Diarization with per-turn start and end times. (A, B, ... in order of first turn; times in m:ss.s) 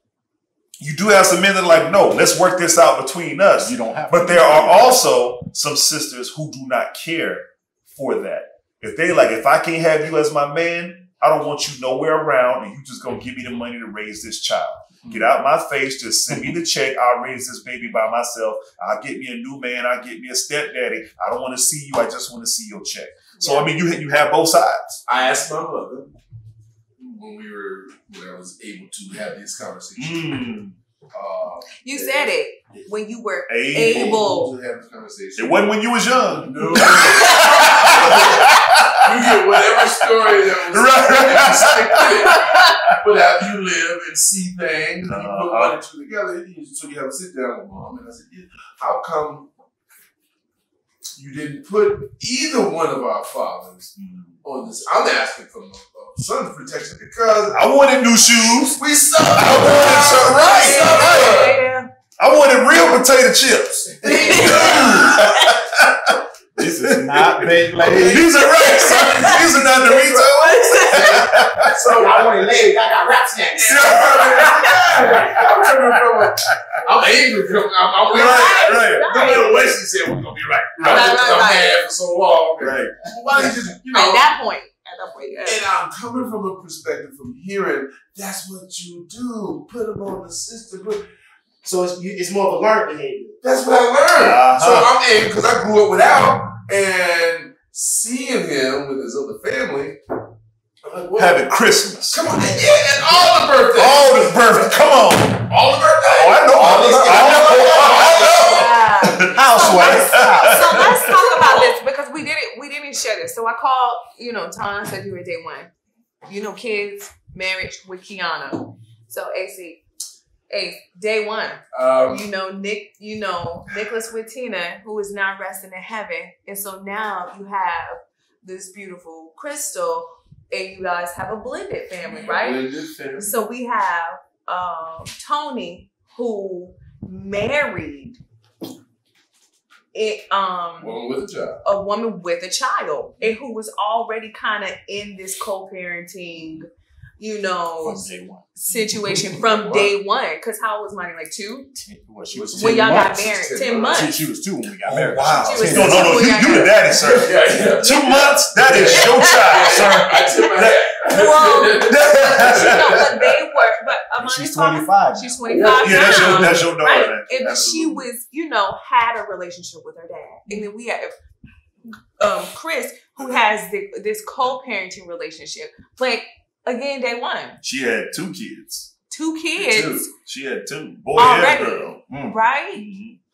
0:00.8-0:25.0 A
0:03.6-0:05.0 B
0:23.4-0:23.7 C
0:25.0-0:26.1 D
0:27.0-0:30.5 D
0:30.0-0:30.8 A
0:31.1-0:32.9 D
0:31.8-0:34.5 C
0:33.5-0:34.2 A
0:33.8-0:35.6 D
0:35.4-0:43.0 A
0:36.4-0:49.5 D
0:36.9-0:37.9 C
0:42.1-0:42.8 C
0:45.0-0:45.8 A
0:51.2-1:01.6 D
0:54.0-0:54.4 A
0:57.5-1:01.5 A
1:00.0-1:01.9 C
1:02.2-1:11.8 A
1:04.0-1:05.2 D
1:04.1-1:04.5 E
1:04.1-1:05.5 C
1:06.6-1:08.3 B
1:07.7-1:09.0 D
1:08.4-1:11.6 C
1:11.6-1:12.4 D
1:11.9-1:14.5 E
1:13.6-1:24.3 D
1:13.6-1:15.7 A
1:16.4-1:16.8 A
1:18.0-1:19.5 C
1:18.1-1:19.8 A
1:20.8-1:21.8 C
1:22.6-1:23.5 A
1:23.9-1:25.6 C
1:25.4-1:31.0 D
1:31.6-1:33.4 E
1:33.4-1:40.0 D
1:34.1-1:34.9 A
1:40.8-1:41.5 D
1:41.1-1:42.3 A
1:42.1-1:48.7 D
1:43.7-1:45.5 A
1:46.0-1:51.7 A
1:46.5-1:47.6 B
1:48.3-1:55.7 C
1:49.2-1:51.0 B
1:56.2-1:59.8 C
2:00.5-2:12.6 C
2:01.7-2:02.2 D
2:12.0-2:13.4 D
2:13.2-2:18.2 C
2:19.9-2:21.0 C
2:20.8-2:21.6 D
2:21.6-2:31.7 C
2:27.8-2:28.5 B
2:29.4-2:29.9 D
2:31.8-2:36.4 B
2:32.3-2:34.1 D
2:32.5-2:34.2 C
2:34.8-2:43.7 A
2:35.4-2:37.2 C
2:37.1-2:43.0 D
2:38.8-2:40.3 C
2:41.0-2:51.1 C
2:44.2-2:45.7 B
2:45.4-2:47.1 D
2:45.6-2:48.1 A
2:52.2-2:57.6 C
2:57.6-2:58.9 A
2:59.1-3:00.1 C
2:59.5-3:00.1 D
3:00.1-3:02.0 A
3:01.2-3:02.9 C
3:02.1-3:02.4 B
3:02.7-3:03.2 A